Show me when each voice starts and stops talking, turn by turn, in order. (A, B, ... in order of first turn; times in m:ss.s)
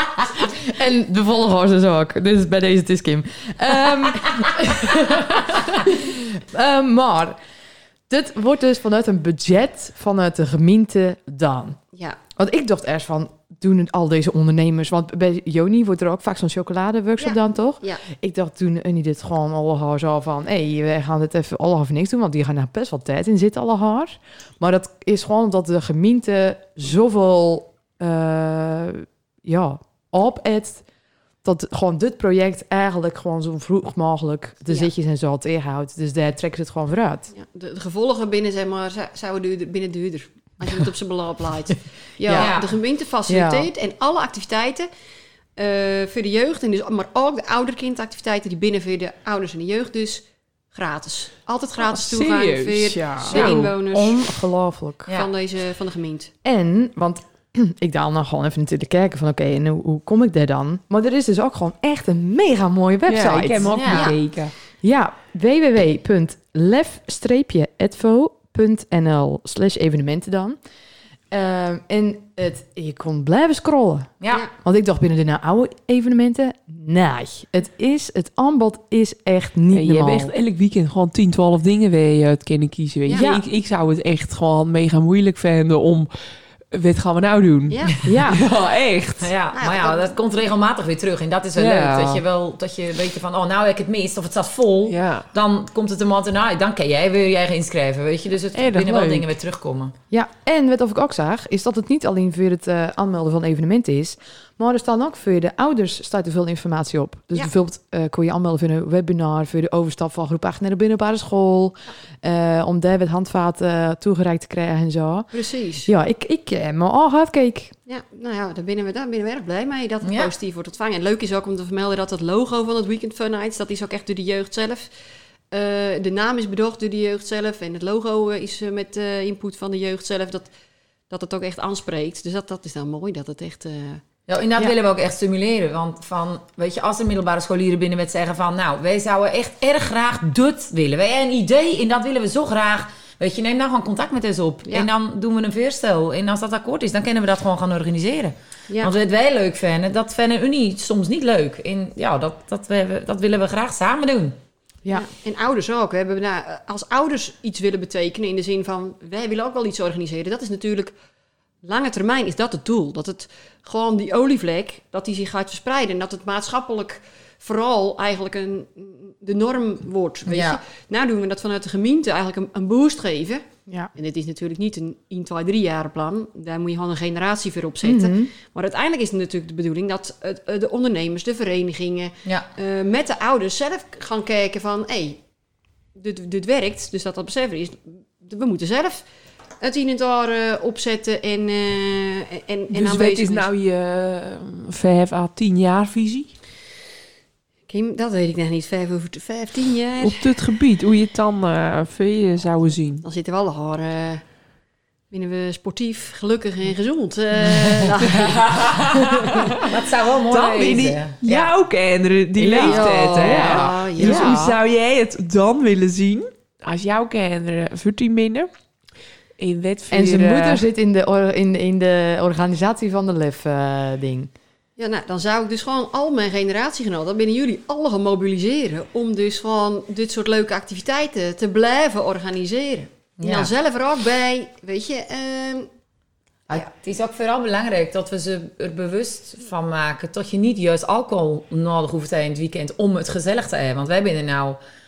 0:00.4-0:07.4 A
0:08.1-0:11.8 A
0:12.4-0:30.8 A
0:17.2-0:18.0 B
0:31.4-0:37.3 A
0:37.3-0:44.9 B
0:42.2-0:42.5 A
0:42.3-0:42.7 C
0:43.3-0:43.7 A
0:45.6-0:54.3 B
0:51.8-0:53.7 D
0:52.9-0:55.1 A
0:55.1-0:56.3 B
0:56.4-1:04.2 A
1:03.1-1:04.5 D
1:03.6-1:04.1 C
1:03.9-1:04.1 B
1:04.8-1:10.6 A
1:11.3-1:20.3 A
1:14.2-1:14.5 C
1:19.7-1:26.1 D
1:23.1-1:23.4 A
1:26.7-1:29.3 D
1:28.0-1:28.4 A
1:29.2-1:39.9 C
1:29.5-1:30.1 B
1:31.5-1:32.2 D
1:34.8-1:35.3 D
1:38.5-1:39.3 A
1:40.1-1:55.3 A
1:55.3-1:55.9 B
1:55.8-1:57.7 A
1:57.9-2:04.9 B
2:00.0-2:00.3 C
2:05.5-2:10.5 B
2:11.1-2:14.0 B
2:14.3-2:34.4 C
2:34.9-2:40.9 B
2:41.6-3:05.2 B
2:50.2-2:50.6 C
2:57.8-2:58.3 A
3:05.9-3:09.0 B
3:09.6-3:13.5 B
3:12.7-3:16.3 D
3:17.7-3:20.4 B
3:20.0-3:23.0 D
3:23.0-3:24.2 B
3:25.1-3:28.9 B
3:28.2-3:31.5 C
3:28.8-3:29.6 D
3:30.3-3:38.5 D
3:32.4-3:34.6 A
3:32.6-3:34.4 B
3:39.4-3:40.7 D
3:39.9-3:44.3 A
3:44.8-3:55.7 B
3:53.2-3:53.5 C
3:56.5-4:04.6 C